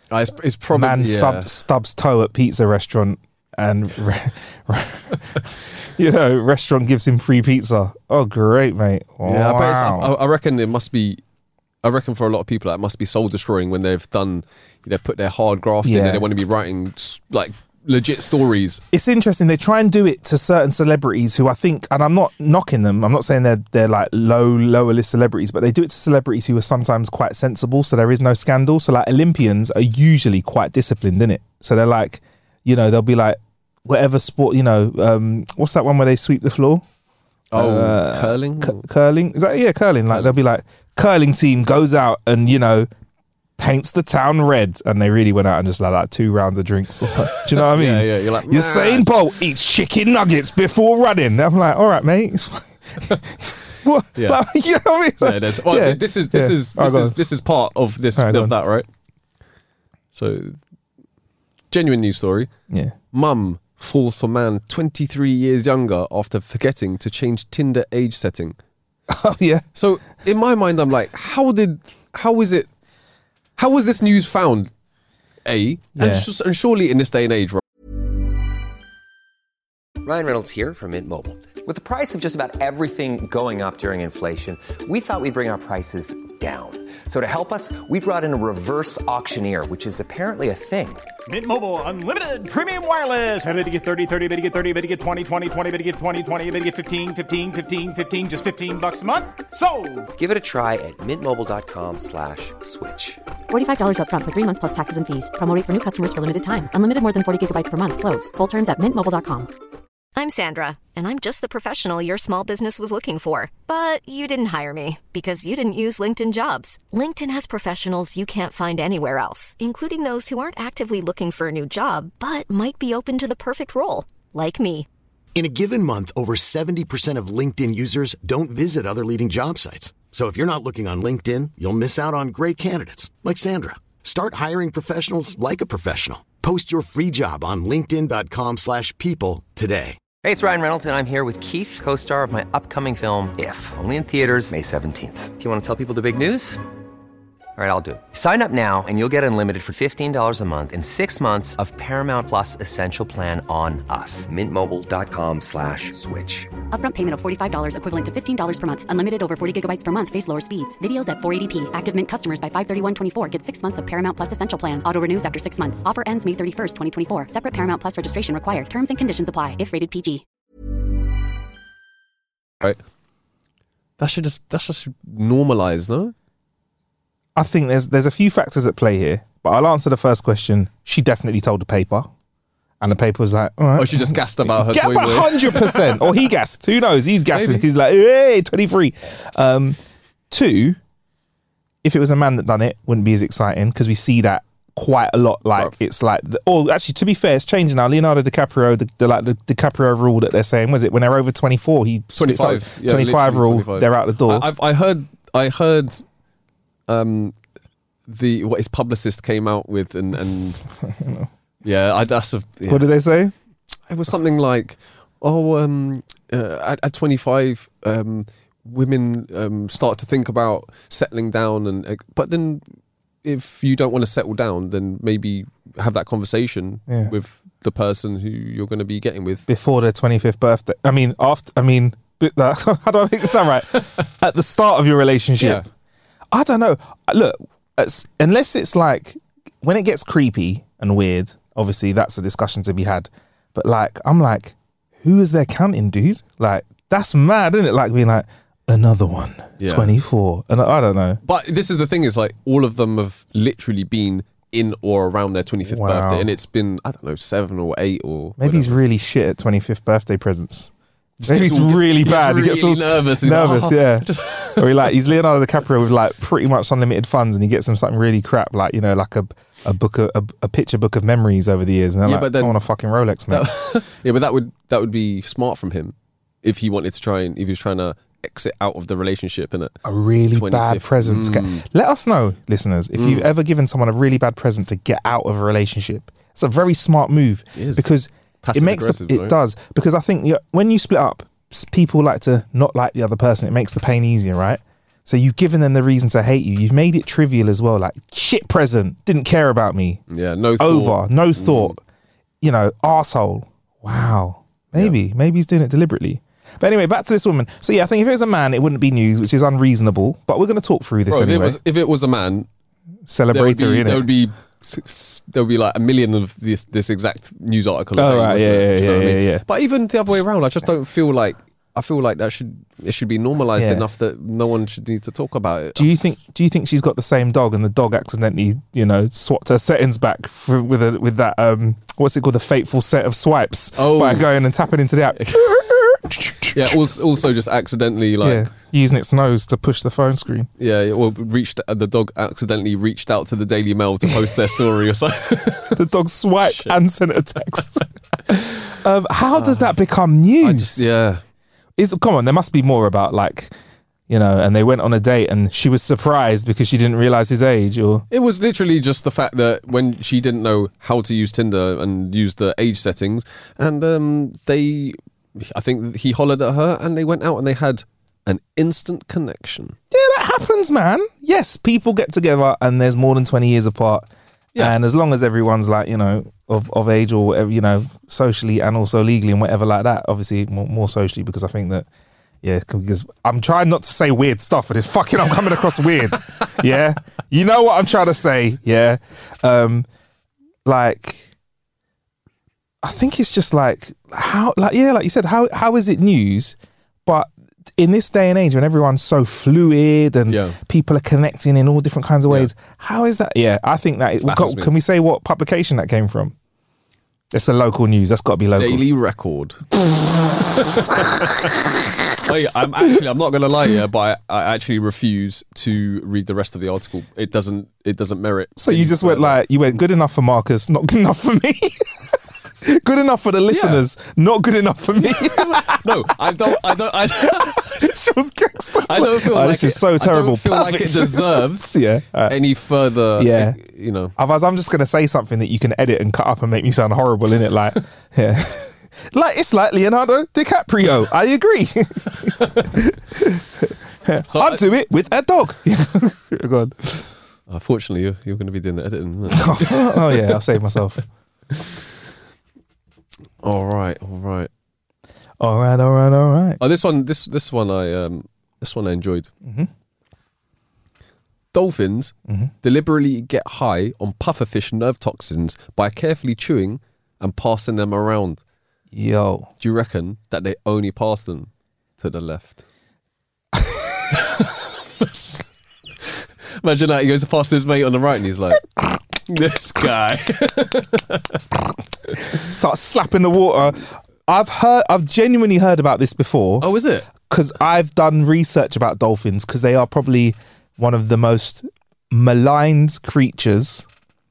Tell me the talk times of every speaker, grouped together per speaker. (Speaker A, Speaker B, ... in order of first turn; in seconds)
Speaker A: 0.1-1.5, 9.2-11.2, 11.8-18.8, 37.5-38.8, 40.1-40.4, 47.4-49.1, 54.1-54.4, 55.2-58.9, 60.1-60.6, 61.7-62.5, 63.1-68.6, 69.7-72.7, 73.6-74.7, 75.4-77.6, 174.0-176.1, 183.8-186.0, 187.3-187.6, 202.2-206.0, 206.9-207.3, 208.1-210.7, 211.6-212.9, 213.9-222.6, 223.2-229.4, 235.4-235.6, 249.6-249.9, 251.2-258.8, 261.2-265.0, 272.0-272.6, 273.3-279.8, 280.3-281.6, 282.9-283.3, 287.5-287.9, 288.4-289.4, 300.1-301.8, 311.1-312.5, 313.3-326.2, 333.8-334.3, 335.1-335.4, 336.5-338.5, 340.6-345.8, 346.4-346.8, 349.3-349.7, 350.4-351.2, 358.1-369.7, 400.3-400.6, 404.2-404.7, 408.6-409.6, 410.6-411.5, 412.2-419.4, 423.5-423.8, 425.0-427.9, 428.8-434.1, 442.4-442.6, 444.3-444.6, 447.5-450.4, 453.4-454.5, 456.6-459.3, 461.5-468.4, 469.6-472.6, 474.3-475.4, 476.0-478.6, 479.2-481.4, 486.6-487.1
Speaker B: 0.7-10.1, 15.8-16.3, 18.9-36.8, 37.5-42.9, 43.6-57.2, 58.1-58.5, 62.7-62.9, 69.1-69.6, 76.0-76.3, 177.3-182.1, 182.8-189.8, 190.3-190.8, 191.8-204.5, 210.8-211.3, 212.7-213.3, 226.9-227.1, 229.5-235.6, 236.3-251.2, 255.7-256.3, 258.4-260.7, 261.2-273.5, 279.8-300.0, 300.6-301.8, 302.4-311.6, 313.1-314.1, 317.9-319.4, 323.6-323.9, 325.8-336.8, 338.2-340.5, 345.7-350.8, 351.8-353.5, 354.1-358.1, 369.9-381.9, 382.4-389.9, 390.6-391.3, 392.8-406.3, 407.3-408.8, 409.9-412.6, 418.6-425.9, 426.4-432.4, 433.1-433.6, 434.1-447.1, 449.3-451.0, 455.4-456.6, 459.4-459.7, 468.9-469.5, 473.6-473.9, 482.3-486.6, 487.2-493.9
Speaker C: 80.0-91.0, 100.2-103.2, 140.2-146.6, 147.6-156.5
Speaker D: 91.3-100.1
Speaker E: 103.5-109.5, 156.7-170.2
Speaker F: 110.2-124.9
Speaker G: 125.3-140.0